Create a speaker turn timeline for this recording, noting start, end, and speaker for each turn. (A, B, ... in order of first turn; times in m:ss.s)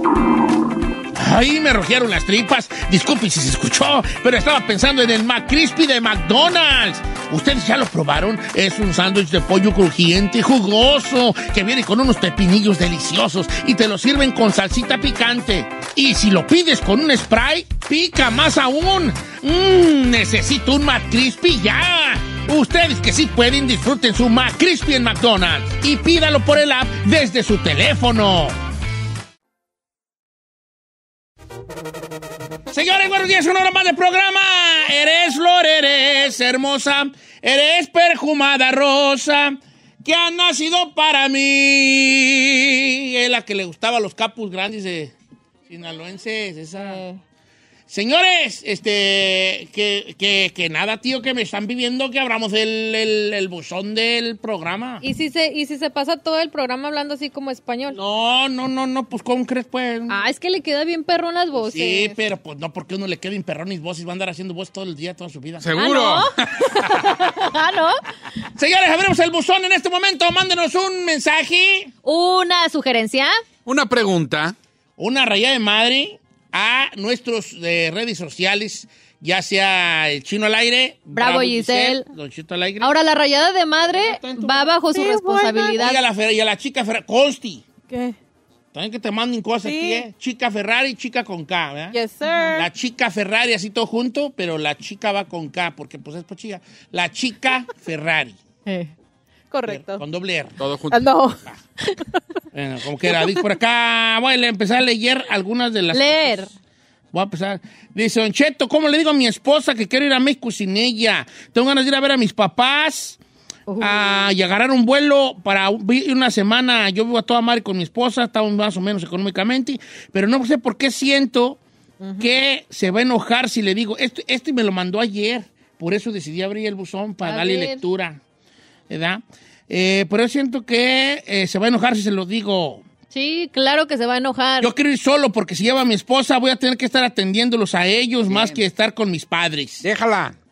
0:01.1-0:28.6 A
0:32.7-0:45.1 A
0:45.7-0:47.0 A
0:46.7-0:47.2 B
0:47.9-0:55.0 A
0:55.0-0:58.0 B
0:57.9-1:00.2 A
1:00.1-1:02.2 B
1:01.6-1:05.7 A
1:05.6-1:07.2 C
1:05.8-1:08.0 B
1:08.6-1:11.9 A
1:12.0-1:13.4 B
1:13.6-1:14.5 C
1:15.0-1:22.9 A
1:21.1-1:22.0 B
1:22.8-1:26.0 B
1:23.9-1:24.7 A
1:24.9-1:25.8 D
1:25.8-1:27.6 A
1:27.9-1:28.2 D
1:28.7-1:32.0 A
1:29.6-1:30.0 D
1:31.9-1:32.6 D
1:32.5-1:38.4 A
1:38.6-1:38.9 B
1:39.5-1:40.0 D
1:39.7-1:40.6 A
1:40.6-1:41.1 C
1:40.9-1:41.4 D
1:42.5-1:46.5 A
1:45.9-1:46.5 B
1:47.1-1:53.2 A
1:53.7-1:54.3 B
1:53.8-2:01.6 A
2:02.0-2:02.4 B
2:02.2-2:08.2 A
2:07.2-2:07.8 B
2:08.9-2:12.8 A
2:13.1-2:14.7 B
2:14.6-2:19.8 A
2:18.3-2:18.6 C
2:19.8-2:20.3 C